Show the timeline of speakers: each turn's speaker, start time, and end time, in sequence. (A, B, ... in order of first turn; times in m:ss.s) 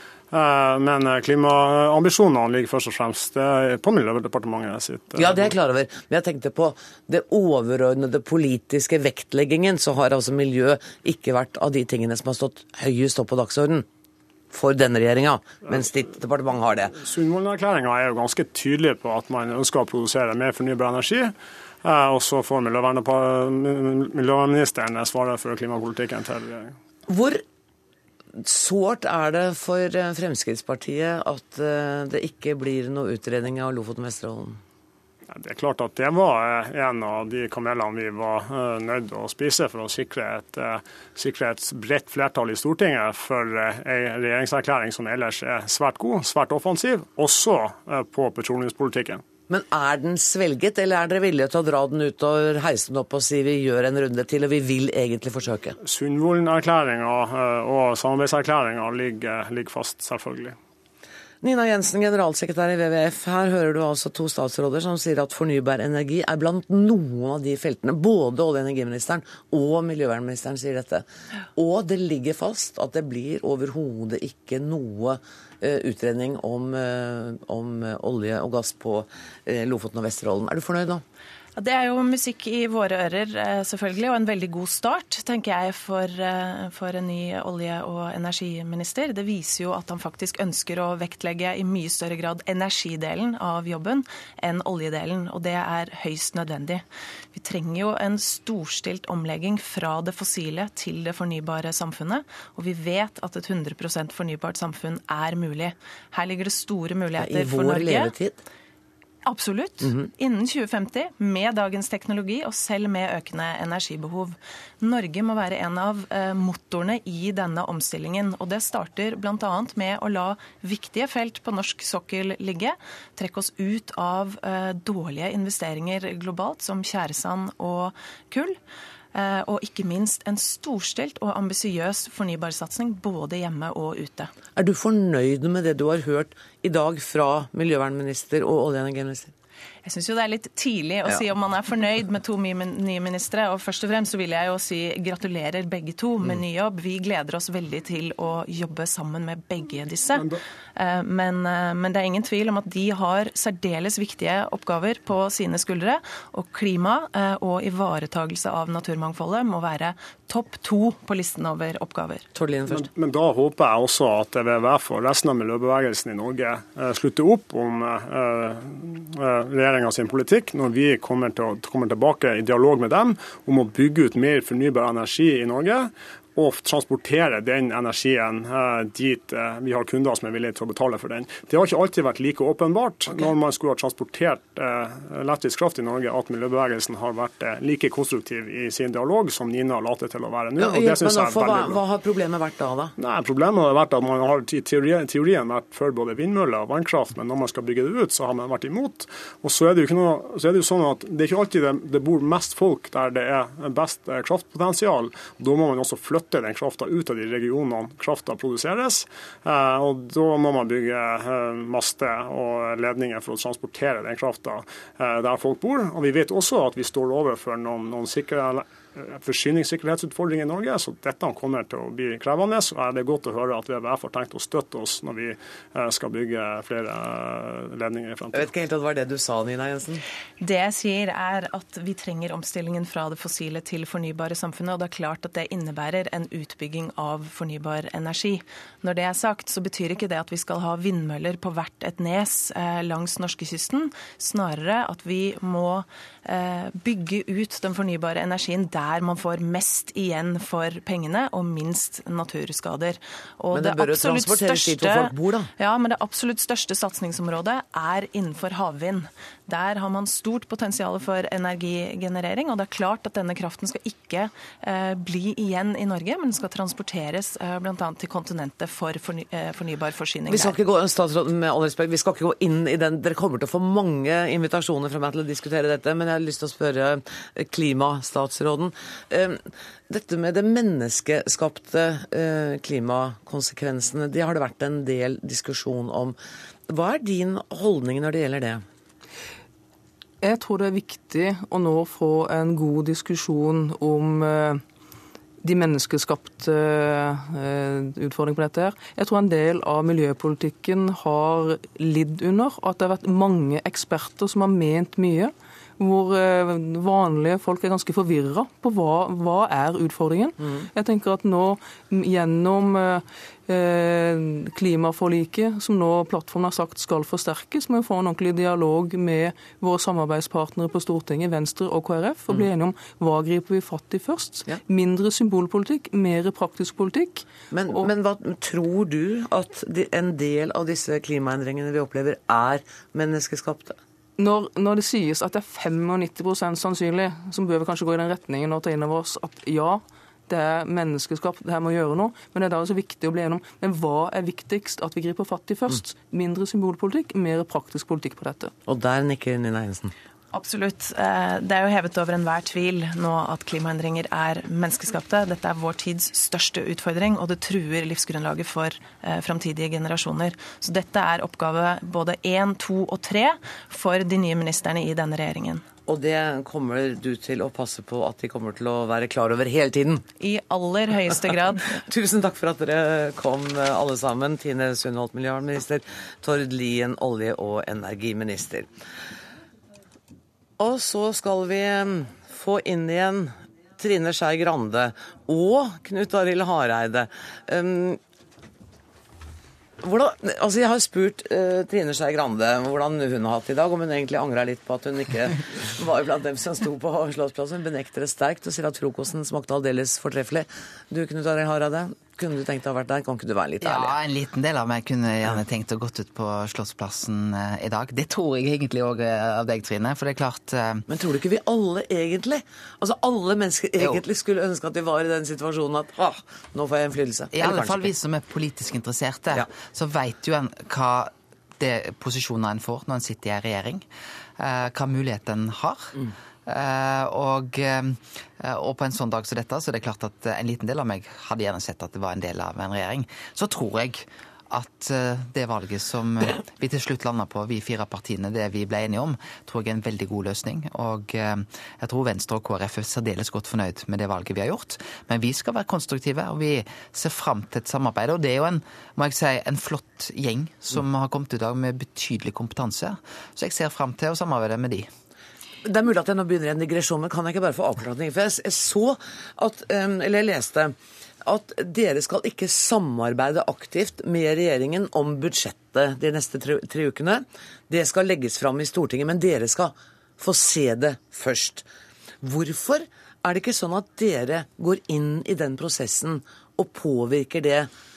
0:00.3-0:05.5 A
0:05.1-0:13.8 B
0:14.5-0:17.0 B
0:17.0-0:26.8 A
0:27.1-0:27.4 B
0:28.4-0:34.6 B
0:35.3-0:49.2 A
0:49.5-0:55.8 B
0:55.8-1:00.6 A
1:01.4-1:21.0 B
1:21.6-1:36.8 C
1:37.3-1:48.1 C
1:47.2-1:48.4 B
1:49.2-2:08.6 C
2:09.1-2:14.3 C
2:14.6-2:19.3 B
2:19.8-2:42.2 C
2:42.3-2:42.9 B
2:42.7-3:11.8 A
3:10.6-3:12.9 B
3:13.0-3:48.5 A
3:48.3-3:50.0 B
3:50.4-4:30.6 C
4:13.5-4:15.5 B
4:30.3-4:46.2 B
4:46.7-4:48.6 B
4:50.2-4:54.6 D
4:55.4-5:27.9 D
5:10.4-5:10.6 B
5:27.5-5:33.8 B
5:34.2-5:48.5 D
5:48.7-5:49.9 B
5:50.3-6:05.6 C
6:05.9-6:10.0 B
6:10.2-6:11.8 C
6:11.7-6:18.7 B
6:20.6-6:28.0 B
6:29.8-6:43.9 B
6:43.6-6:50.8 E
6:50.9-6:57.9 B
6:57.3-7:03.8 E
7:04.4-7:34.9 E
7:35.6-7:51.6 B
7:52.2-7:57.7 B